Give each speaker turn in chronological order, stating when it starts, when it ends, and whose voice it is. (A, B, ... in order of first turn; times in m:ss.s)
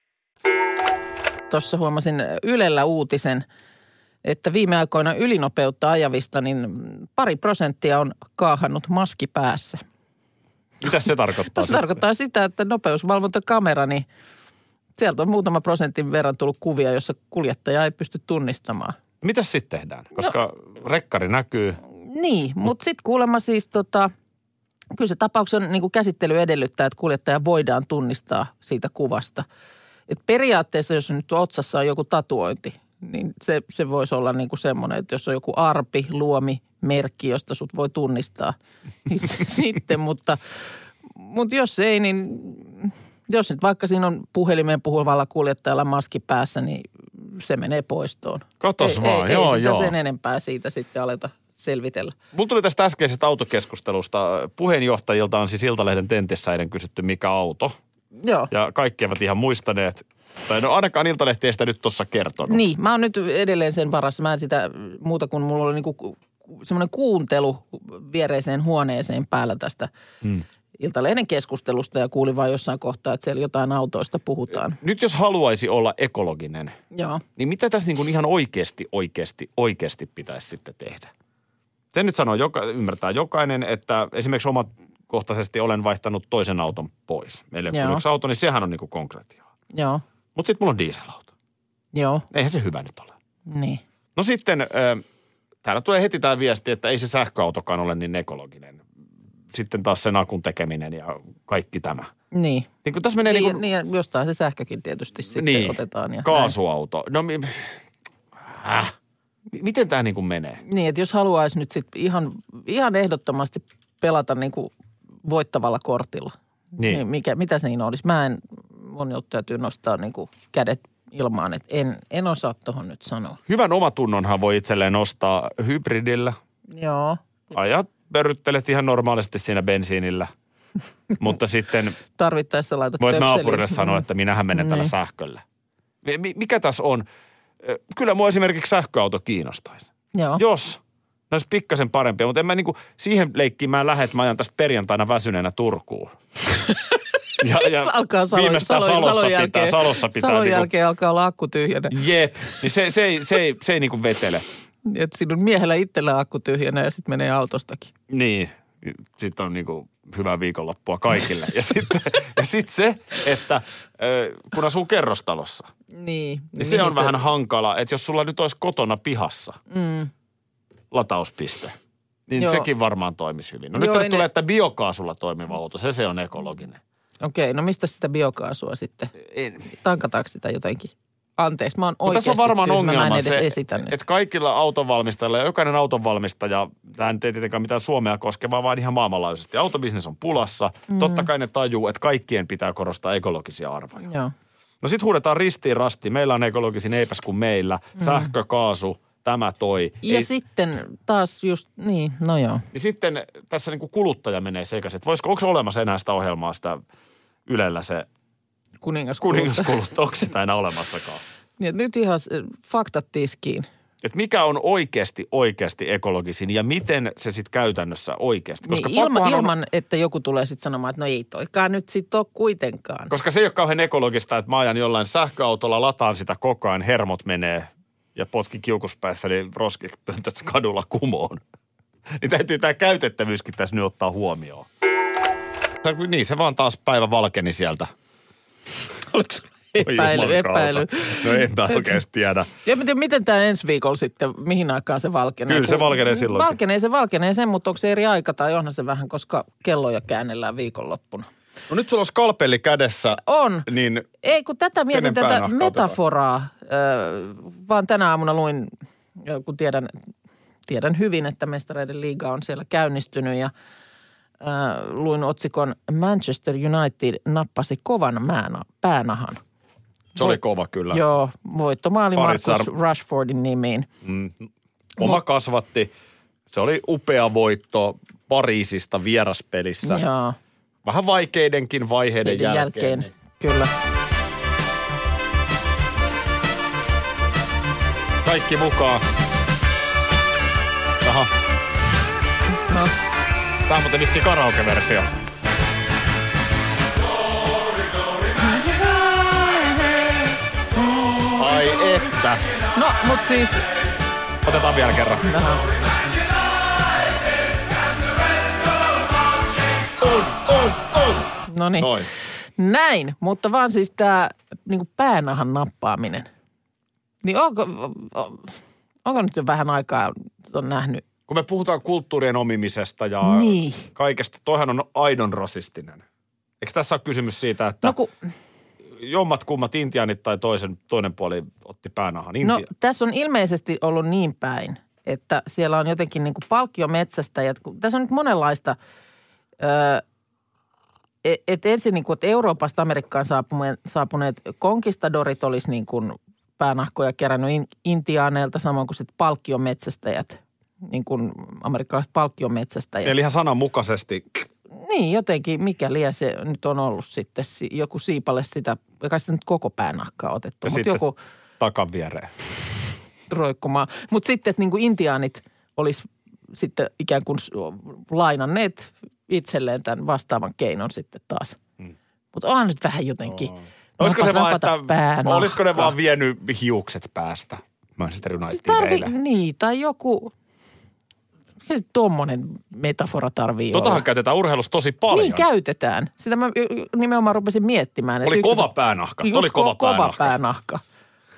0:01.5-0:03.4 A
0:04.2-0:09.8 A
0:10.8-0:12.0 B
0:11.5-0:14.0 A
0:15.0-0:19.0 A
0:19.2-0:21.8 B
0:22.0-0:24.1 A
0:24.9-0:29.4 A
0:30.1-0:38.5 A
0:39.1-0:40.4 A
0:41.1-0:52.1 A
0:48.6-0:49.9 B
0:52.3-0:57.8 B
0:58.2-0:58.5 A
0:58.5-1:02.6 B
1:02.5-1:09.9 A
1:10.8-1:14.8 A
1:14.8-1:16.8 B
1:16.9-1:17.2 A
1:17.4-1:21.1 B
1:21.9-1:29.4 B
1:27.7-1:28.0 A
1:29.7-1:30.0 A
1:30.3-1:31.3 B
1:31.9-1:32.2 A
1:32.3-1:33.1 B
1:33.5-1:33.8 A
1:34.2-1:35.0 B
1:35.6-1:38.8 B
1:39.5-1:42.1 B
1:42.3-1:42.7 A
1:42.8-1:43.6 B
1:43.2-1:46.5 A
1:45.3-1:47.8 B
1:48.4-1:48.9 B
1:49.5-1:50.6 B
1:50.6-1:54.7 A
1:55.2-2:03.4 A
2:03.5-2:06.4 B
2:06.7-2:07.2 A
2:07.5-2:10.3 B
2:11.2-2:12.0 B
2:12.2-2:14.9 A
2:13.0-2:15.4 B
2:16.0-2:17.0 B
2:17.6-2:20.8 B
2:20.1-2:20.4 A
2:21.3-2:26.1 B
2:26.7-2:27.0 A
2:27.4-2:30.7 B
2:27.6-2:32.0 A
2:31.9-2:34.4 B
2:34.8-2:37.9 A
2:38.1-2:45.7 B
2:45.9-2:47.2 A
2:46.6-2:49.6 B
2:49.7-2:50.1 A
2:50.9-2:51.7 B
2:52.3-2:56.8 B
2:52.4-2:52.7 A
2:53.7-2:54.2 A
2:57.2-2:59.1 A
2:59.3-2:59.6 B
2:59.7-3:03.9 A
3:02.0-3:14.1 B
3:10.9-3:11.3 A
3:14.0-3:14.3 A
3:14.8-3:20.3 B
3:18.0-3:18.3 A
3:20.0-3:22.6 A
3:22.7-3:26.8 B
3:27.4-3:28.1 B
3:28.8-3:29.7 A
3:29.2-3:31.2 B
3:31.6-3:33.7 A
3:34.0-3:39.5 B
3:38.6-3:43.1 A
3:43.1-3:51.4 B
3:52.2-3:54.7 B
3:55.8-3:57.9 B
3:59.1-4:02.0 A
3:59.8-4:02.5 B
4:02.6-4:11.3 A
4:05.5-4:06.6 B
4:11.7-4:14.1 B
4:13.2-4:13.6 A
4:14.2-4:18.7 A
4:14.9-4:16.0 B
4:19.2-4:19.9 A
4:20.7-4:23.5 A
4:24.4-4:29.4 A
4:30.2-4:31.1 B
4:30.9-4:33.9 A
4:32.2-4:32.7 B
4:34.0-4:34.4 B
4:35.0-4:35.9 B
4:36.5-4:40.0 B
4:39.8-4:40.4 A
4:40.8-4:43.1 B
4:42.2-4:43.7 A
4:48.2-4:49.0 B
4:51.0-4:51.3 B
4:53.7-4:55.1 B
5:01.4-5:02.4 B
5:02.7-5:03.6 A
5:04.4-5:05.3 B
5:05.2-5:05.6 A
5:10.0-5:11.3 B
5:11.5-5:11.9 A
5:11.8-5:12.1 B
5:12.6-5:16.3 A
5:17.2-5:21.0 A
5:21.3-5:26.0 B
5:23.2-5:23.9 A
5:26.6-5:28.0 B
5:27.8-5:28.1 A
5:29.0-5:32.7 B
5:32.4-5:38.8 A
5:39.6-5:40.0 A
5:41.2-5:53.1 A
5:53.0-5:54.4 B
5:54.7-6:01.2 A
6:00.6-6:01.0 B
6:01.6-6:02.3 B
6:03.3-6:11.6 A
6:12.3-6:15.9 A
6:13.4-6:19.1 B
6:18.5-6:20.3 A
6:21.7-6:24.0 A
6:23.7-6:25.4 B
6:25.1-6:28.7 A
6:28.2-6:30.3 B
6:29.2-6:30.8 A